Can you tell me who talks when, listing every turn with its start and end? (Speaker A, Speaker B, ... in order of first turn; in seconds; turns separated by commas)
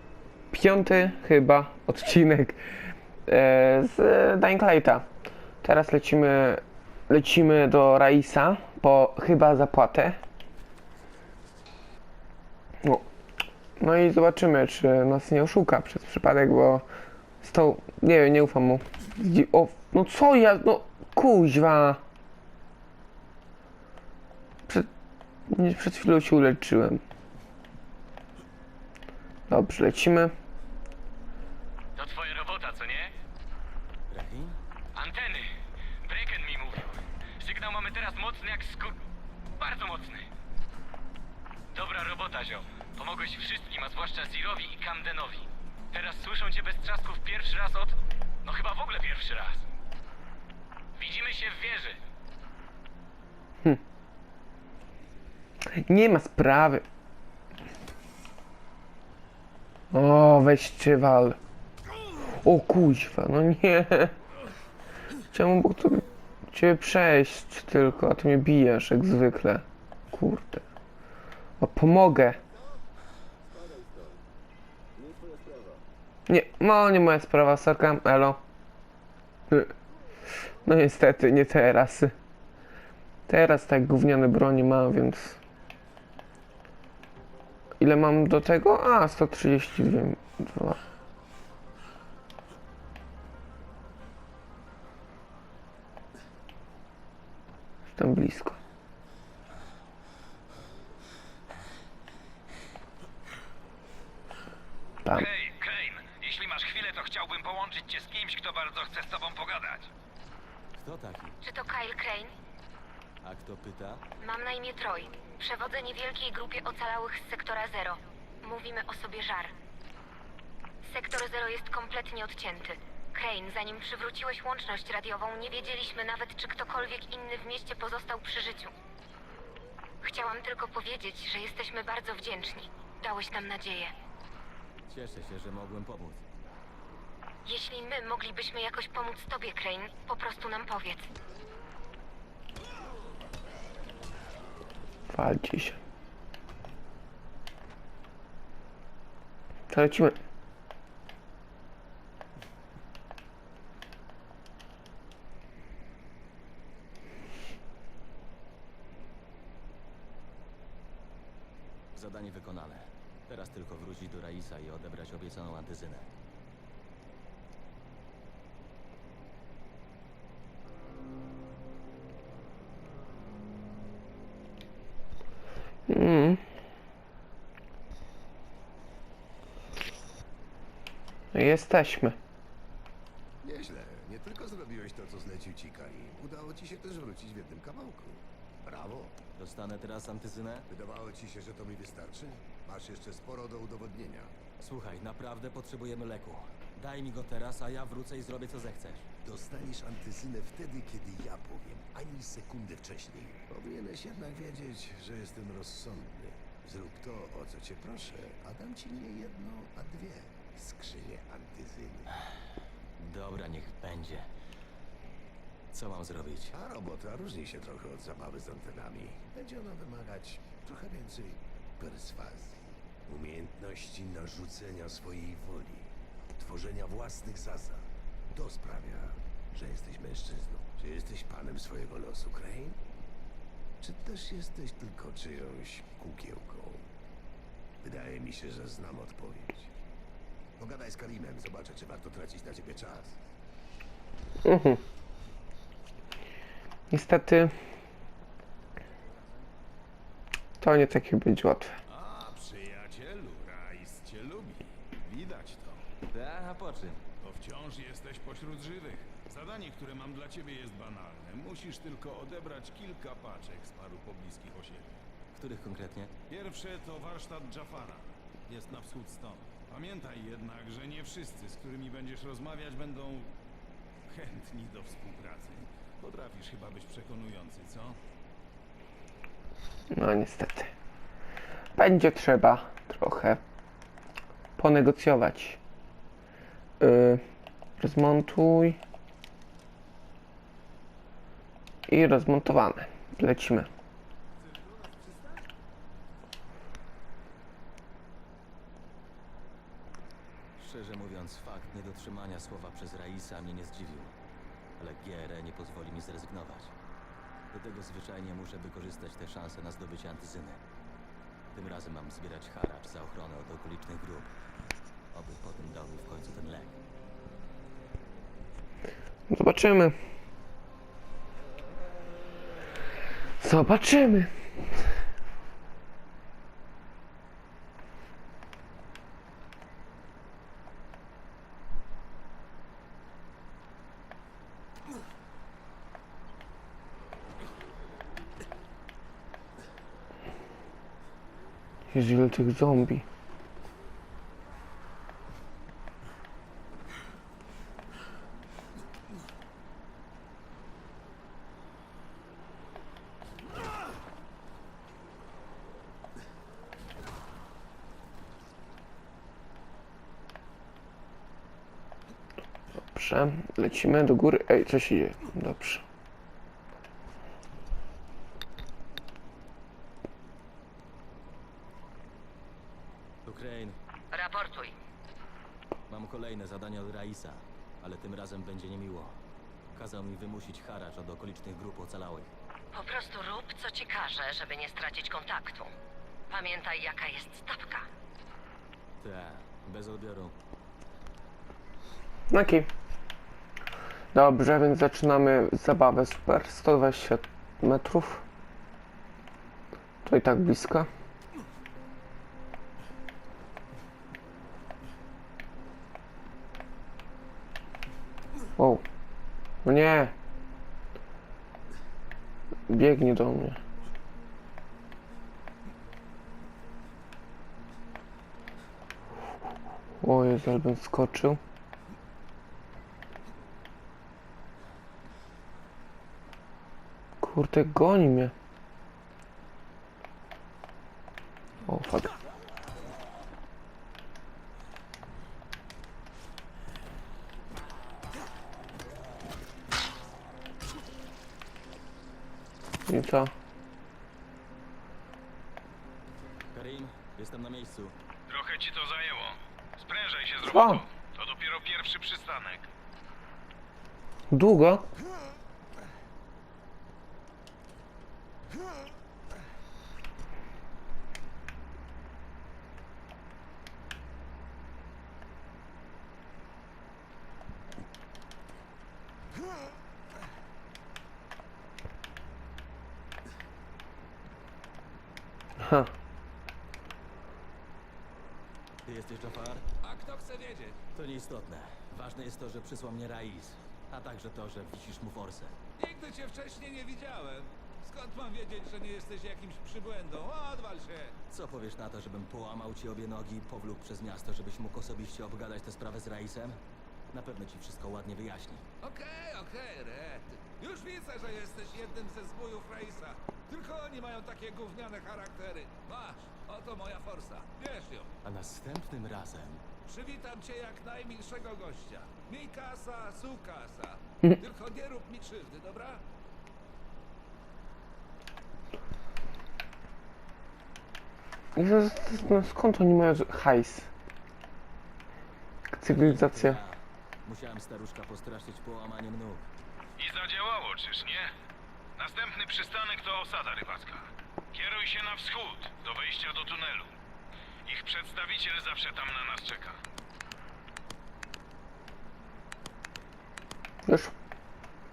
Speaker A: 0.5-5.1, Speaker A: 5.6-10.2, Speaker A: 13.8-16.9, Speaker A: 17.4-22.0, Speaker A: 25.5-27.0, Speaker A: 29.5-30.3, Speaker B: 31.9-33.1, Speaker C: 34.1-34.6, Speaker B: 34.9-35.5, Speaker B: 36.0-39.0, Speaker B: 39.6-40.3, Speaker B: 41.7-49.6, Speaker B: 51.0-52.0, Speaker A: 55.7-56.8, Speaker A: 59.9-61.4, Speaker A: 62.4-64.2, Speaker A: 65.3-70.7, Speaker A: 71.6-72.4, Speaker D: 73.5-74.1, Speaker D: 75.0-75.7, Speaker A: 76.3-78.4, Speaker A: 80.6-82.1, Speaker A: 83.3-85.4, Speaker A: 87.8-90.8, Speaker A: 97.9-98.6, Speaker B: 105.1-109.9, Speaker E: 105.3-105.6, Speaker C: 110.7-111.4, Speaker F: 111.4-112.3, Speaker C: 113.2-114.0, Speaker F: 114.2-119.5, Speaker F: 120.8-128.7, Speaker F: 130.0-133.9, Speaker C: 134.9-136.2, Speaker F: 137.4-141.1, Speaker A: 145.1-145.8, Speaker A: 149.7-150.2, Speaker C: 161.9-166.1, Speaker A: 175.9-176.4, Speaker A: 181.3-182.2, Speaker D: 183.4-189.2, Speaker C: 189.3-190.7, Speaker D: 190.7-194.4, Speaker C: 194.6-199.1, Speaker D: 199.2-212.1, Speaker C: 213.0-214.3, Speaker C: 215.7-216.5, Speaker D: 216.5-232.8, Speaker D: 233.8-236.9, Speaker D: 237.8-239.7, Speaker D: 240.6-243.2, Speaker A: 244.4-244.8, Speaker A: 246.9-247.5, Speaker A: 250.6-251.8, Speaker E: 251.9-254.4, Speaker C: 256.1-257.0, Speaker E: 257.2-264.8, Speaker C: 265.3-266.1, Speaker E: 266.3-268.0, Speaker E: 269.7-273.3, Speaker E: 274.2-275.4, Speaker E: 276.1-277.7, Speaker A: 279.9-280.7, Speaker A: 281.8-283.4, Speaker A: 284.6-285.6, Speaker A: 286.8-287.2, Speaker A: 287.8-288.8, Speaker A: 291.9-293.7, Speaker C: 300.6-304.1, Speaker C: 304.8-306.7, Speaker C: 307.5-310.6, Speaker C: 311.5-314.3, Speaker C: 315.1-316.8, Speaker A: 319.3-319.9, Speaker A: 323.4-324.3, Speaker A: 341.9-343.0, Speaker A: 362.8-365.8, Speaker C: 373.2-373.8, Speaker G: 374.1-374.7, Speaker C: 375.9-379.2, Speaker C: 379.7-382.3, Speaker G: 382.7-385.7, Speaker G: 386.3-387.9, Speaker C: 389.0-390.3, Speaker A: 392.3-392.7, Speaker A: 394.1-398.2, Speaker A: 400.0-400.9, Speaker A: 408.6-408.8, Speaker A: 409.6-410.1, Speaker A: 412.7-413.6, Speaker A: 420.0-421.4, Speaker A: 427.2-428.3, Speaker A: 431.6-432.1, Speaker A: 442.9-443.3, Speaker C: 446.5-447.9, Speaker E: 448.3-452.7, Speaker A: 450.4-450.8, Speaker A: 454.3-454.9, Speaker A: 475.6-475.9, Speaker C: 478.8-479.6, Speaker H: 479.8-480.8, Speaker C: 480.9-485.6, Speaker H: 485.8-491.1, Speaker C: 491.3-496.6, Speaker C: 497.1-498.6, Speaker H: 498.8-508.1, Speaker C: 508.2-509.6, Speaker H: 509.9-516.0, Speaker A: 521.5-523.9, Speaker A: 525.7-526.6, Speaker C: 525.9-529.5, Speaker E: 530.0-531.3, Speaker E: 532.0-536.9, Speaker E: 537.6-539.8, Speaker A: 543.9-544.1